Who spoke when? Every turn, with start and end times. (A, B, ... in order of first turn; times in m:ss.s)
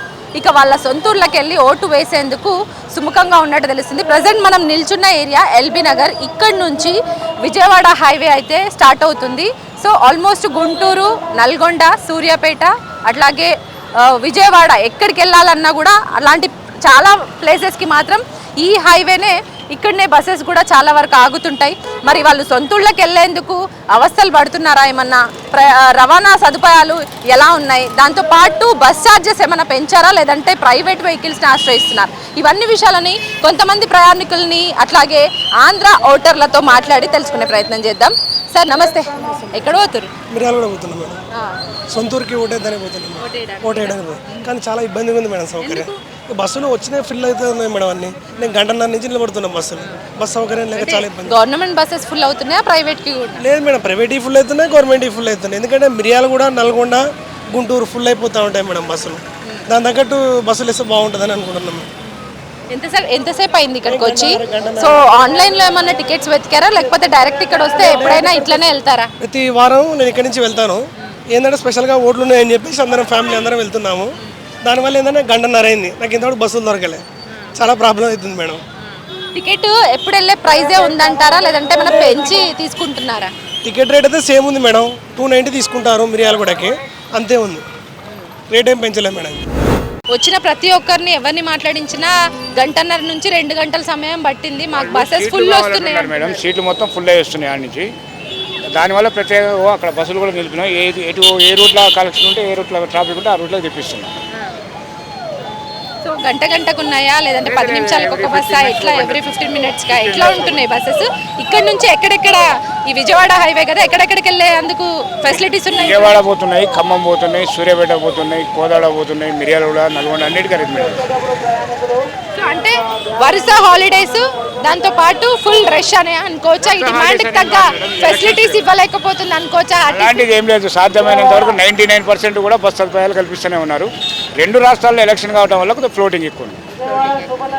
0:00.4-0:40.1 A
0:40.3-0:41.2 B
0:41.9-0:51.3 B
0:43.2-0:44.5 A
0:45.6-0:45.9 A
0:48.3-0:48.6 A
0:50.7-0:53.4 A
0:53.4-1:01.9 B
1:02.7-1:09.1 A
1:03.8-1:04.9 B
1:09.2-1:10.8 B
1:11.3-1:14.1 B
1:14.6-1:17.0 B
1:17.5-1:18.6 B
1:18.8-1:23.3 A
1:23.6-1:27.6 B
1:28.5-1:29.4 B
1:30.1-1:36.5 A
1:34.7-1:37.9 C
1:38.7-1:44.2 C
1:46.0-1:56.2 A
1:47.4-1:50.6 C
1:55.8-2:01.1 C
2:02.3-2:10.2 A
2:06.6-2:08.6 C
2:09.9-2:16.6 C
2:16.9-2:17.3 A